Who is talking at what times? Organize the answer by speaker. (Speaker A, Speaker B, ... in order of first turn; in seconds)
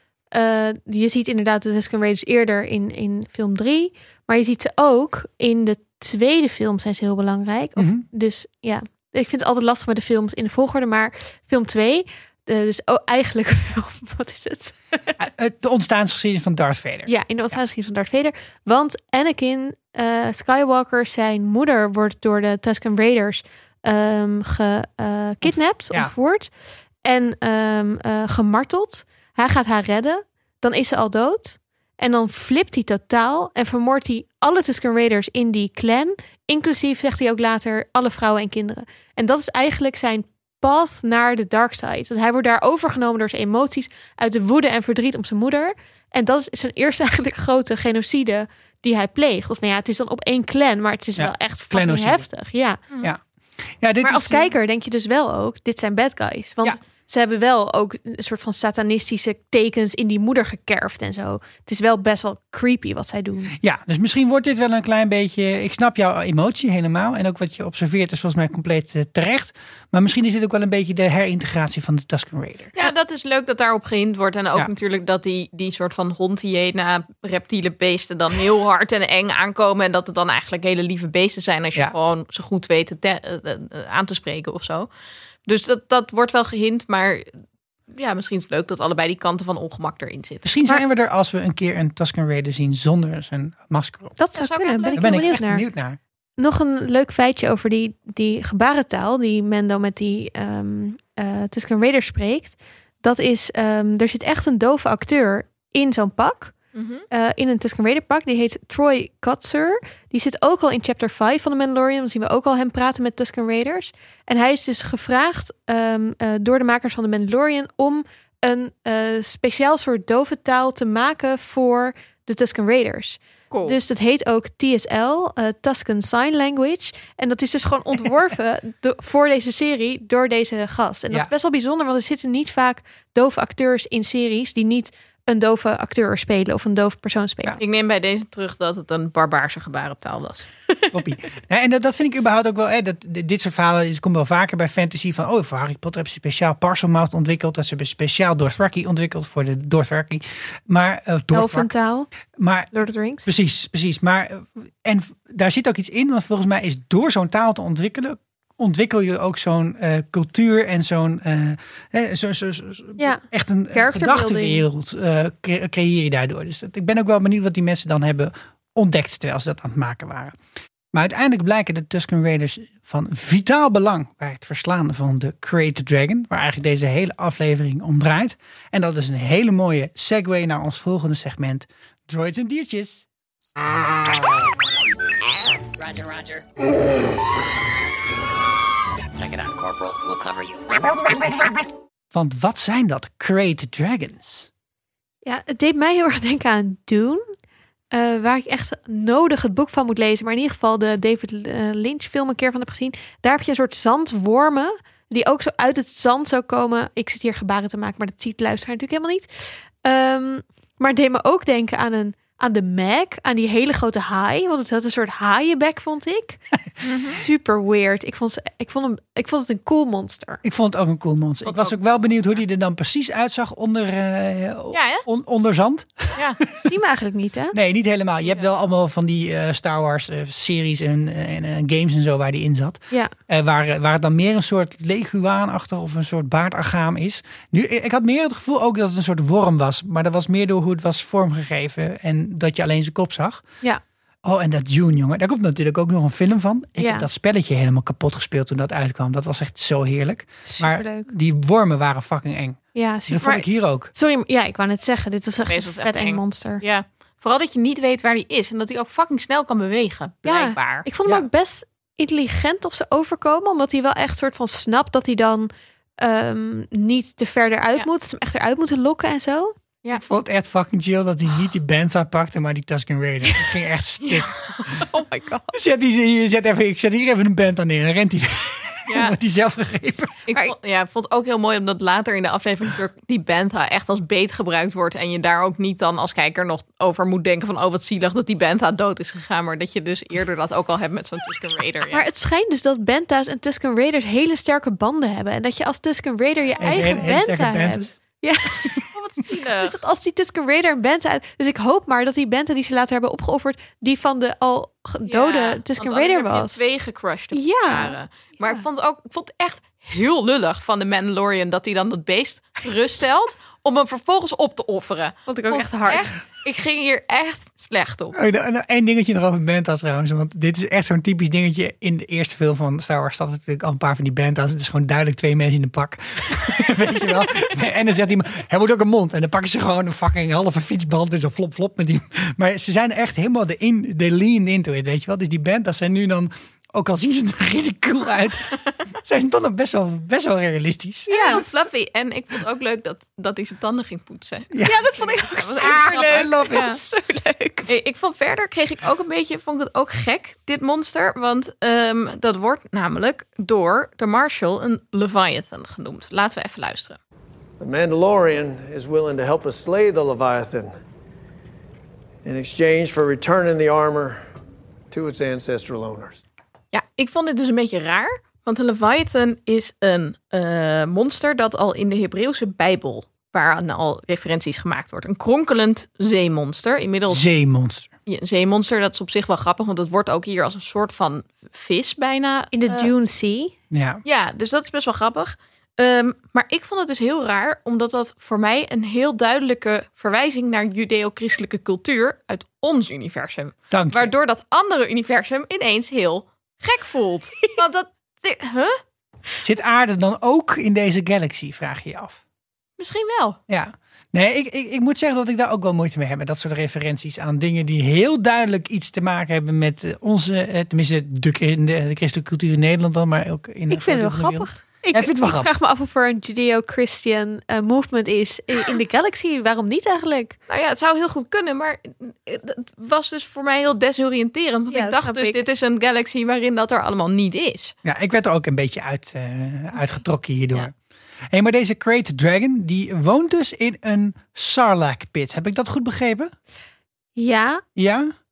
Speaker A: 0.3-15.2, 17.1-26.5, 27.0-52.8, 54.0-63.5, 94.2-95.7, 96.4-106.6, 107.1-137.6, 151.3-152.1, 152.7-153.3, 163.0-164.7, 195.2-197.3, 197.9-220.4, 226.6-227.6, 246.8-247.1, 250.4-251.1, 252.8-256.6, 260.3-269.6, 274.9-275.5, 291.9-298.8, 299.6-306.6, 307.3-308.6, 315.3-316.1, 341.1-341.4, 344.6-347.7, 382.5-383.6, 413.7-420.4, 424.7-425.4, 437.2-437.6
Speaker B: 7.8-8.1, 15.2-17.1, 25.5-26.1, 51.2-52.3, 53.7-54.4, 63.6-72.7, 90.4-94.2, 95.0-96.0, 140.9-151.7, 152.4-152.7, 153.2-170.4, 170.9-183.1, 192.1-194.5, 220.4-226.2, 227.5-243.4, 244.2-253.9, 269.9-274.4, 275.5-280.2, 296.6-297.9, 318.1-341.4, 344.5-344.8, 345.6-346.7, 377.1-377.9, 383.7-384.0, 393.7-394.1, 399.4-402.2, 403.5-415.5, 427.9-430.7, 431.3-436.3, 437.8-438.1
Speaker C: 72.8-84.9, 85.5-87.3, 87.9-90.5, 94.3-95.4, 106.8-107.0, 123.5-123.8, 137.6-140.5, 216.8-217.2, 221.5-222.1, 224.7-225.1, 255.5-260.9, 274.3-274.8, 278.9-279.2, 280.3-292.1, 298.9-299.8, 305.1-318.2, 341.1-346.8, 347.7-357.0, 366.7-377.2, 378.1-382.9, 384.1-398.8, 402.8-403.4, 420.5-427.8
Speaker D: 185.8-186.4, 189.2-190.9
Speaker E: 357.6-360.8, 362.2-364.2, 364.9-366.2